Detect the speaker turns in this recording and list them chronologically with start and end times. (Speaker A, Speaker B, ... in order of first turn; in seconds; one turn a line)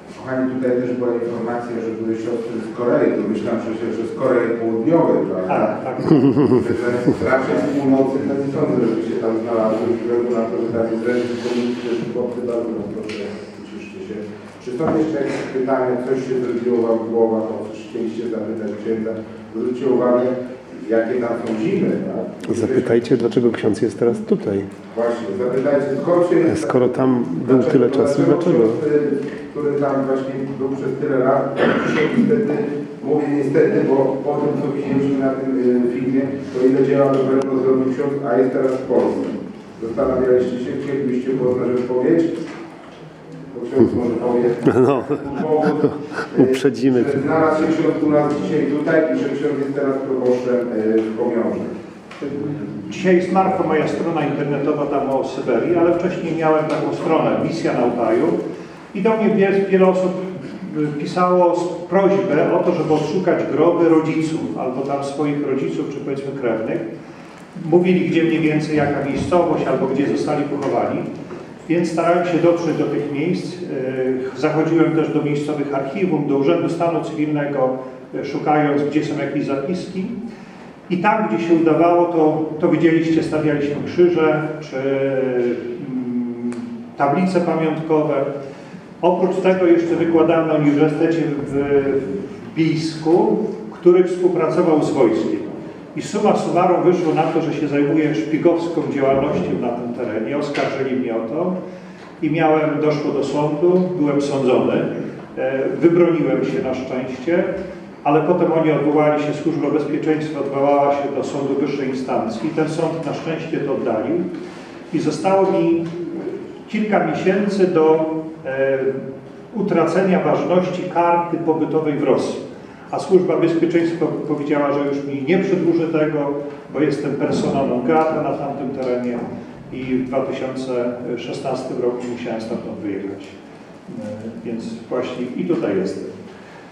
Speaker A: 0.1-23.1
Speaker B: 5.5-6.5
Speaker C: 22.5-24.7
Speaker A: 24.9-42.3
Speaker C: 26.5-28.8
Speaker A: 43.5-51.7
Speaker C: 44.7-45.2
Speaker C: 46.3-47.2
Speaker B: 52.9-58.4
Speaker B: 58.9-66.9
Speaker B: 67.5-71.1
Speaker B: 71.7-80.2
Speaker B: 80.9-88.3
Speaker B: 89.0-101.5
Speaker B: 102.2-107.5
Speaker B: 108.0-114.3
Speaker B: 114.9-133.3
Speaker B: 133.9-136.1